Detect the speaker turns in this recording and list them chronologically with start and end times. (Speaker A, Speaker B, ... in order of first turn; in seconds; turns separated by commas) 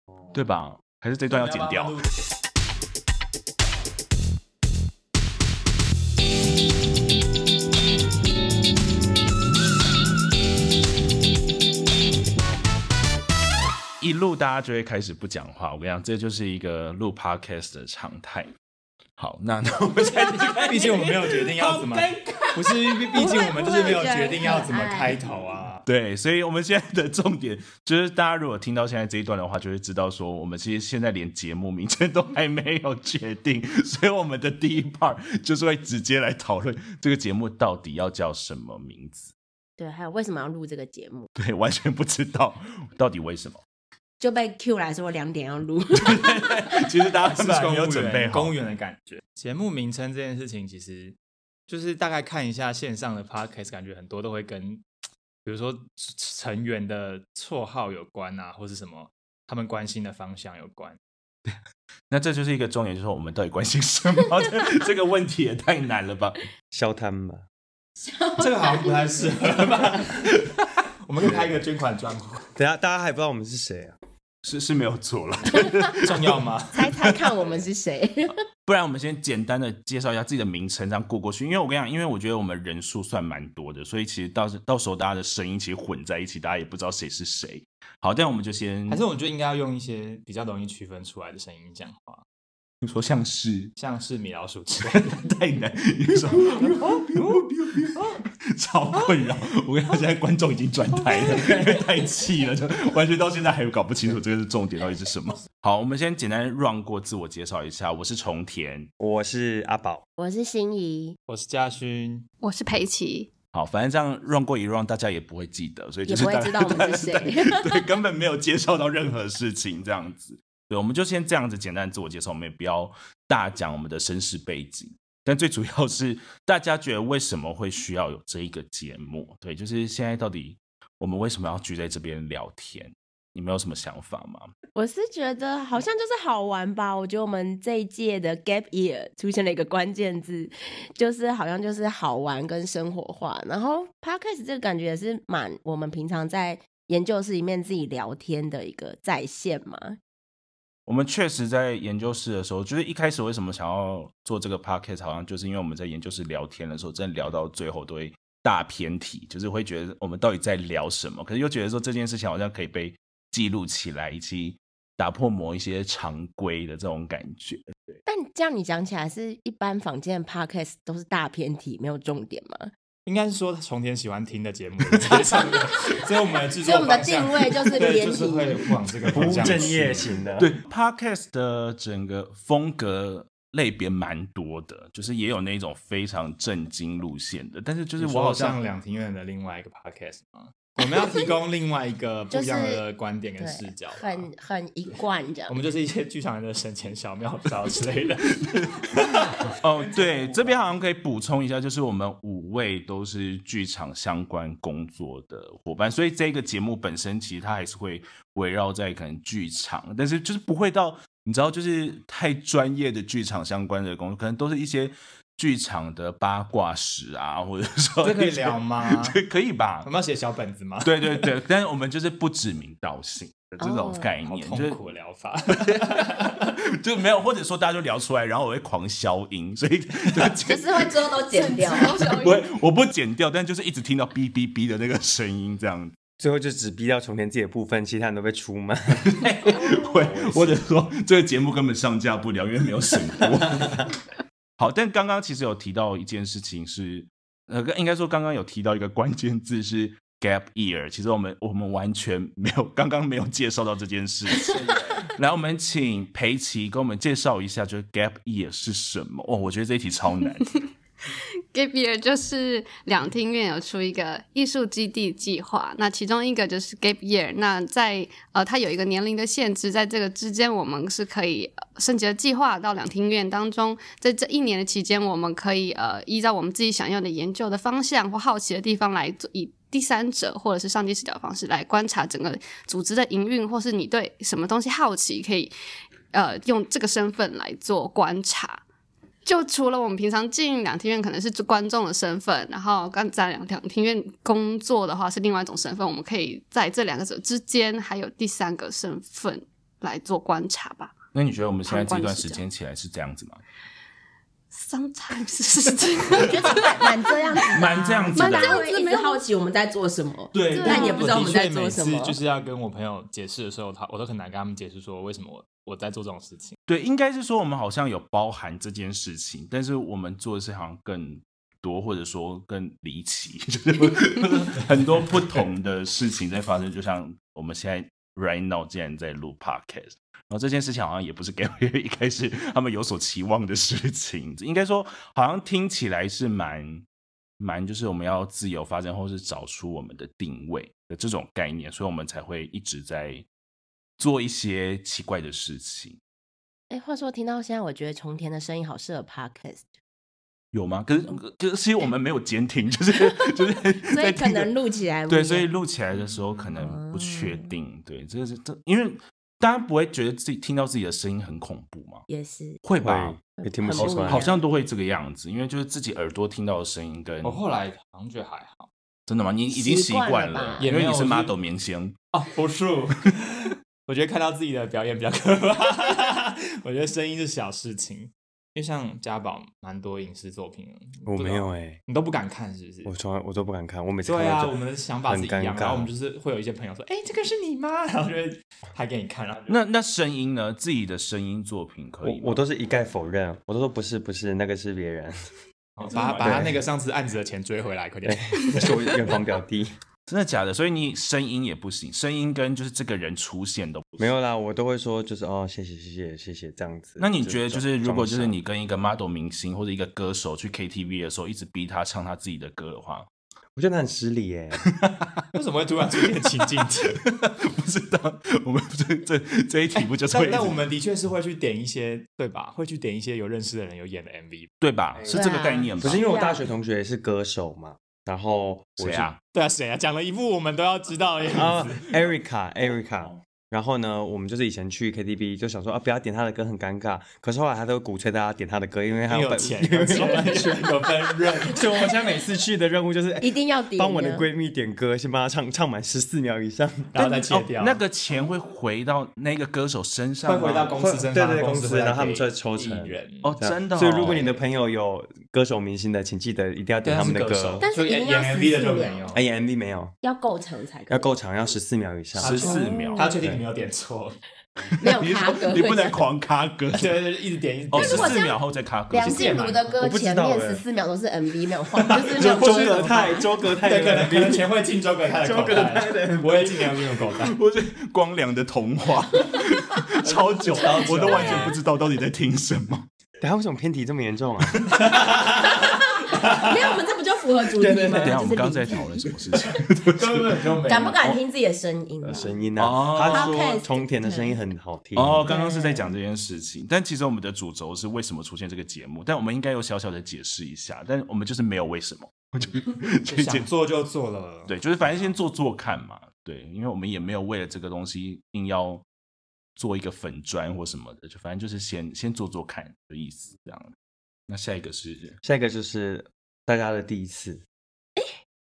Speaker A: 0.3-2.0, Speaker B: 1.3-2.1, Speaker A: 14.0-18.5, Speaker A: 19.2-23.4, Speaker B: 20.5-25.8, Speaker C: 23.1-25.2, Speaker A: 25.8-39.3, Speaker C: 39.8-41.3, Speaker A: 41.4-43.6, Speaker C: 44.2-46.5, Speaker A: 45.9-48.5, Speaker B: 47.2-51.1, Speaker B: 51.7-54.8, Speaker B: 55.4-61.0, Speaker A: 62.1-66.4, Speaker D: 66.7-67.4, Speaker C: 68.0-69.6, Speaker B: 68.4-70.3, Speaker A: 70.2-70.6, Speaker B: 71.0-72.5, Speaker D: 72.5-73.9, Speaker A: 74.4-76.4, Speaker B: 76.0-76.9, Speaker C: 76.7-78.3, Speaker A: 77.0-77.6, Speaker A: 78.7-89.0, Speaker B: 88.9-92.2, Speaker A: 92.8-93.7, Speaker B: 93.8-95.3, Speaker A: 94.9-108.9, Speaker B: 96.3-98.2, Speaker D: 109.0-110.0, Speaker C: 110.2-111.2, Speaker B: 111.3-112.3, Speaker E: 112.4-113.3, Speaker A: 113.5-134.5, Speaker C: 116.1-117.8, Speaker C: 134.7-150.0, Speaker A: 150.9-168.0, Speaker C: 168.1-172.7, Speaker B: 173.1-180.1, Speaker C: 176.6-178.7, Speaker D: 179.1-180.5, Speaker A: 179.2-188.6, Speaker B: 188.0-194.3, Speaker C: 190.8-191.3, Speaker C: 192.3-192.8, Speaker C: 193.4-195.6, Speaker B: 195.5-200.7, Speaker A: 198.4-219.9, Speaker B: 218.0-219.2, Speaker B: 219.8-221.3, Speaker A: 220.8-224.8, Speaker C: 223.6-224.1, Speaker B: 224.2-226.4, Speaker A: 225.5-231.0, Speaker C: 230.4-232.2, Speaker E: 231.3-232.4, Speaker A: 232.1-235.9, Speaker D: 236.2-239.1, Speaker A: 238.9-243.9, Speaker D: 239.7-240.6, Speaker A: 244.6-260.6, Speaker B: 254.4-255.1, Speaker E: 261.5-285.5, Speaker E: 286.1-288.6, Speaker E: 289.2-300.9, Speaker A: 301.1-303.4, Speaker E: 301.7-302.4, Speaker E: 304.5-307.5, Speaker C: 306.1-312.2, Speaker A: 307.5-308.6, Speaker E: 308.1-309.2, Speaker A: 310.3-310.7, Speaker B: 310.4-316.6, Speaker E: 310.5-311.2, Speaker A: 316.7-336.8, Speaker A: 337.4-343.2, Speaker A: 344.0-346.0, Speaker C: 346.7-349.6, Speaker A: 350.5-354.5, Speaker C: 353.9-355.5, Speaker A: 355.1-362.0, Speaker C: 356.5-357.5, Speaker C: 362.1-362.6, Speaker A: 362.6-363.2, Speaker D: 362.8-364.3, Speaker C: 363.4-364.4, Speaker A: 363.7-367.4, Speaker B: 367.2-368.7, Speaker A: 369.1-372.0, Speaker C: 369.5-370.6, Speaker B: 370.6-371.3, Speaker B: 372.1-382.9, Speaker D: 381.1-381.8, Speaker D: 382.8-385.9, Speaker B: 384.0-389.6, Speaker A: 389.5-392.4, Speaker D: 392.0-395.1, Speaker B: 395.8-399.2, Speaker A: 395.8-396.5, Speaker D: 396.2-396.6, Speaker D: 398.0-399.7, Speaker A: 400.1-404.1, Speaker D: 404.0-408.4, Speaker A: 407.0-413.1, Speaker D: 413.6-414.6, Speaker A: 414.7-415.2, Speaker B: 415.3-417.0, Speaker A: 416.6-420.6, Speaker B: 419.7-424.5, Speaker A: 424.6-426.1, Speaker D: 424.9-429.1, Speaker C: 425.1-426.4, Speaker A: 428.8-429.2, Speaker B: 429.3-431.9, Speaker D: 431.3-446.9, Speaker B: 439.1-441.7, Speaker C: 443.2-444.2, Speaker B: 446.9-447.8, Speaker A: 447.0-450.7, Speaker B: 450.2-453.4, Speaker D: 450.6-457.6, Speaker A: 453.2-454.3, Speaker B: 453.9-454.2, Speaker B: 456.8-459.2, Speaker C: 457.6-459.2, Speaker D: 459.1-459.9, Speaker C: 460.0-461.1, Speaker D: 460.9-462.4, Speaker A: 462.2-463.1, Speaker B: 462.2-464.2, Speaker C: 462.4-463.2, Speaker A: 464.8-467.0, Speaker C: 464.8-466.0, Speaker B: 466.7-468.2, Speaker A: 467.7-469.4, Speaker C: 467.7-468.4, Speaker C: 468.9-473.3, Speaker B: 469.0-469.8, Speaker D: 469.8-470.6, Speaker D: 472.1-474.5, Speaker A: 472.2-473.0, Speaker B: 473.6-477.4, Speaker D: 475.1-477.1, Speaker A: 477.2-482.9, Speaker B: 480.1-481.6, Speaker C: 480.5-481.5, Speaker D: 483.2-484.7, Speaker B: 484.7-486.7, Speaker C: 485.4-489.6, Speaker D: 487.6-488.3, Speaker A: 488.0-490.5, Speaker B: 489.9-491.0, Speaker C: 490.6-492.3, Speaker D: 492.0-495.2, Speaker A: 492.6-493.6, Speaker C: 493.1-494.4, Speaker A: 494.9-503.5, Speaker C: 495.2-495.9, Speaker B: 503.1-504.5, Speaker A: 504.5-508.8, Speaker A: 509.6-513.7, Speaker A: 514.3-515.2, Speaker D: 515.2-517.4